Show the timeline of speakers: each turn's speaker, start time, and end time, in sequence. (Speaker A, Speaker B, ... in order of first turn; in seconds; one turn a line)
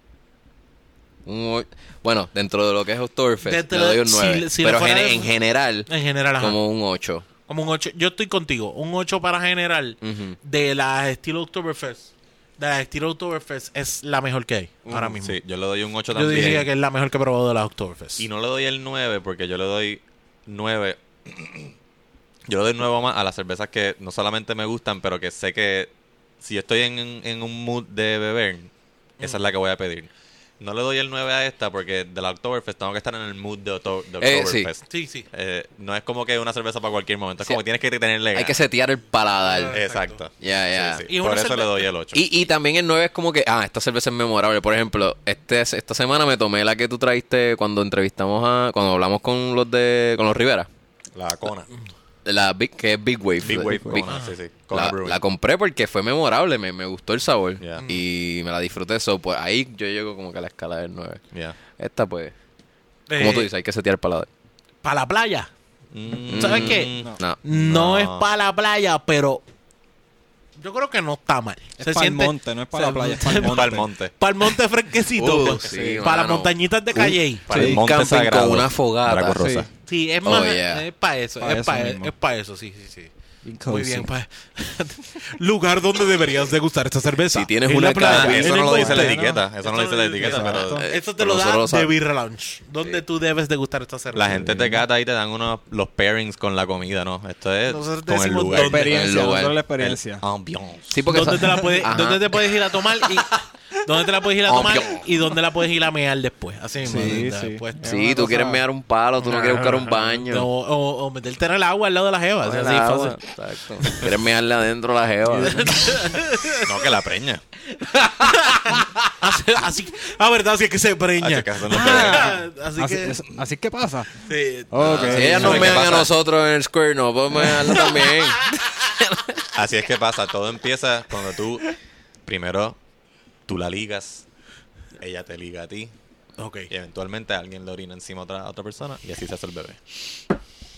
Speaker A: 1.2-7.2
Speaker B: 3.4-5.3
Speaker B: 5.9-6.6
Speaker B: 7.5-15.4
Speaker A: 10.0-10.4
Speaker C: 15.2-16.7
Speaker B: 16.1-18.2
Speaker C: 18.2-21.7
Speaker C: 22.5-30.1
Speaker C: 30.6-38.6
Speaker A: 34.2-34.7
Speaker B: 34.9-35.3
Speaker A: 38.3-39.8
Speaker B: 39.4-40.2
Speaker C: 39.7-42.2
Speaker A: 40.4-41.0
Speaker B: 41.0-41.9
Speaker A: 42.1-50.7
Speaker C: 51.1-51.7
Speaker A: 52.2-54.1
Speaker C: 53.4-55.2
Speaker B: 54.0-54.3
Speaker A: 54.7-61.2
Speaker C: 57.6-57.9
Speaker A: 61.8-62.3
Speaker B: 63.1-63.5
Speaker A: 63.2-64.3
Speaker B: 64.8-65.5
Speaker C: 65.9-68.2
Speaker A: 66.3-67.5
Speaker B: 66.3-69.4
Speaker B: 70.6-77.5
Speaker D: 71.8-73.9
Speaker C: 73.4-74.1
Speaker A: 75.1-76.5
Speaker C: 75.6-75.9
Speaker C: 76.9-79.7
Speaker A: 77.5-79.5
Speaker D: 77.5-77.8
Speaker D: 79.4-79.7
Speaker B: 79.9-83.1
Speaker A: 80.2-80.8
Speaker D: 81.4-82.1
Speaker D: 83.4-84.1
Speaker B: 83.7-94.5
Speaker A: 87.3-88.6
Speaker C: 88.0-90.8
Speaker D: 88.2-89.4
Speaker D: 90.2-90.8
Speaker A: 90.8-91.9
Speaker C: 94.1-98.9
Speaker D: 94.5-94.7
Speaker B: 97.7-99.1
Speaker D: 98.5-100.2
Speaker A: 98.8-99.6
Speaker C: 99.8-100.9
Speaker A: 100.9-102.5
Speaker B: 101.1-108.0
Speaker A: 104.5-105.0
Speaker D: 106.8-108.6
Speaker A: 107.8-110.5
Speaker B: 109.2-113.2
Speaker A: 112.4-115.7
Speaker B: 113.8-114.1
Speaker D: 115.2-115.9
Speaker B: 115.4-116.7
Speaker C: 116.6-117.4
Speaker B: 118.1-123.2
Speaker C: 121.2-122.3
Speaker D: 121.7-125.9
Speaker B: 124.2-125.8
Speaker A: 124.8-128.5
Speaker C: 124.8-126.1
Speaker B: 127.4-129.0
Speaker C: 129.5-131.7
Speaker C: 132.2-132.8
Speaker C: 133.5-134.2
Speaker C: 135.0-135.9
Speaker B: 136.4-136.7
Speaker C: 136.7-139.8